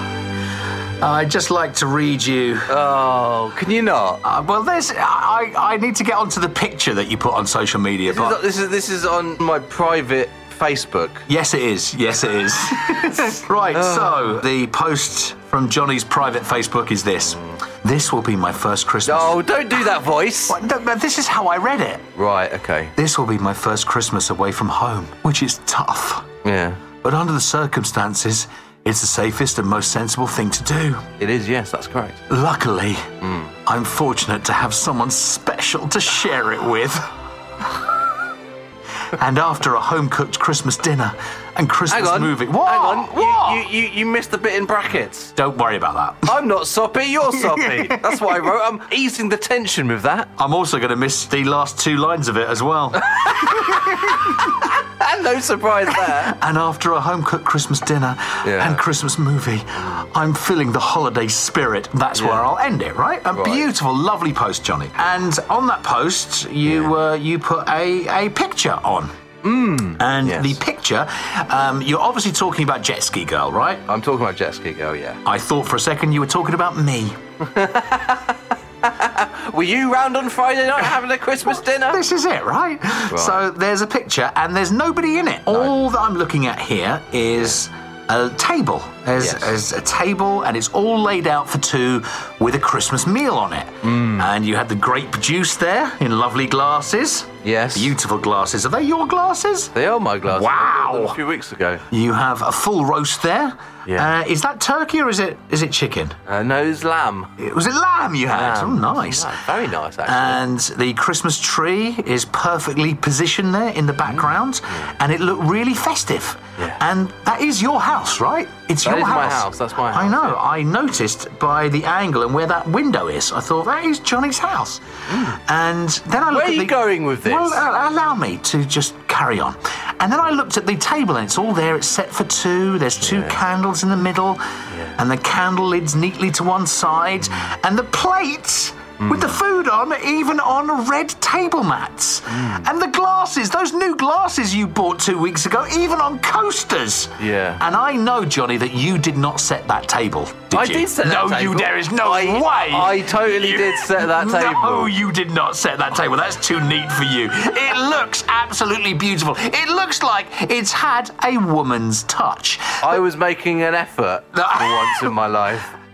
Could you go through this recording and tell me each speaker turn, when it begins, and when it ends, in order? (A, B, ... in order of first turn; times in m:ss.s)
0:01.0-0:02.7 A
0:02.7-0:04.2 B
0:04.2-0:08.4 A
0:08.1-0:11.3 B
0:11.3-0:19.4 A
0:13.7-0:14.4 B
0:19.0-0:20.6 B
0:20.5-0:22.1 A
0:22.2-0:22.9 B
0:23.0-0:26.3 A
0:26.4-0:26.8 B
0:27.0-0:31.0 A
0:31.2-0:32.2 B
0:32.3-0:33.1 A
0:33.2-0:33.5 B
0:33.6-0:37.1 A
0:39.1-0:43.6 A
0:41.9-0:45.3 B
0:45.4-0:46.4 A
0:46.2-0:50.3 B
0:47.5-0:48.2 A
0:50.4-0:54.5 A
0:55.0-0:56.3 B
0:56.1-1:09.1 A
0:58.4-0:58.8 B
1:02.2-1:02.4 B
1:03.3-1:03.6 B
1:06.6-1:06.9 B
1:09.4-1:10.6 B
1:10.0-1:13.8 A
1:13.9-1:15.2 B
1:15.2-1:17.2 A
1:17.4-1:22.0 B
1:21.9-1:39.7 A
1:23.1-1:23.4 B
1:29.2-1:29.5 B
1:33.8-1:34.2 B
1:37.4-1:37.9 B
1:39.7-1:41.8 B
1:40.3-1:41.2 A
1:41.9-1:46.2 A
1:46.3-1:47.3 B
1:47.4-1:49.4 A
1:48.3-1:50.4 B
1:50.1-2:14.4 A
1:54.1-1:54.9 B
1:58.8-2:00.4 B
2:05.1-2:05.4 B
2:06.3-2:07.6 B
2:13.0-2:13.4 B
2:14.7-2:15.0 B
2:15.0-2:43.0 A
2:19.0-2:19.4 B
2:22.3-2:22.6 B
2:27.2-2:27.6 B
2:30.5-2:34.9 B
2:42.8-2:45.7 B
2:44.3-2:45.1 A